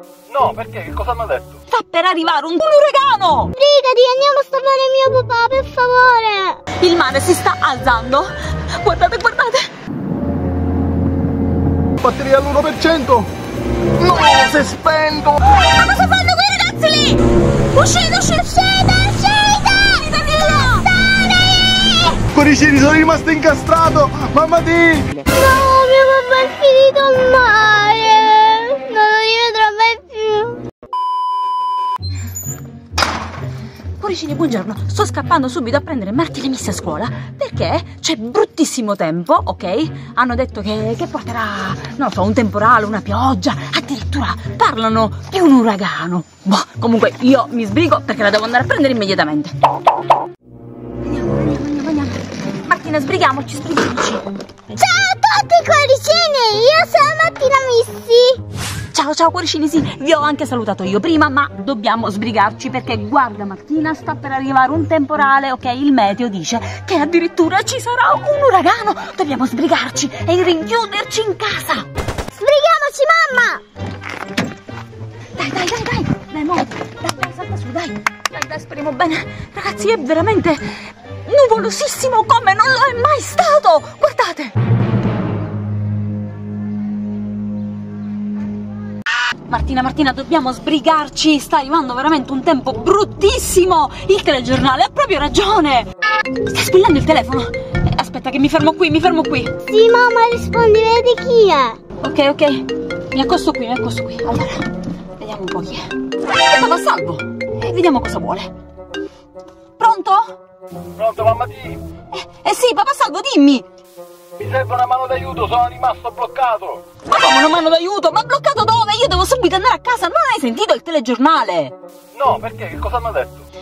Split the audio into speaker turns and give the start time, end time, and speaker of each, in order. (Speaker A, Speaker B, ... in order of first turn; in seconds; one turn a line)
Speaker A: 0.3-1.6
Speaker B: 1.7-3.5
Speaker C: 3.6-6.4
Speaker B: 6.8-9.7
Speaker A: 12.0-13.3
Speaker A: 14.0-15.4
Speaker B: 15.5-21.0
Speaker C: 21.0-22.1
Speaker A: 22.3-25.1
Speaker C: 25.4-30.6
Speaker B: 34.0-49.5
Speaker B: 51.0-54.2
Speaker C: 54.8-58.3
Speaker B: 58.9-71.9
Speaker C: 72.4-73.5
Speaker B: 75.4-80.6
Speaker B: 81.2-84.5
Speaker B: 89.5-95.9
Speaker B: 96.5-99.5
Speaker C: 99.7-101.6
Speaker B: 102.0-104.7
Speaker B: 105.2-105.9
Speaker B: 106.5-108.5
Speaker B: 109.8-110.3
Speaker A: 111.0-111.8
Speaker B: 112.1-113.6
Speaker A: 114.4-116.8
Speaker B: 117.0-121.7
Speaker A: 122.1-123.4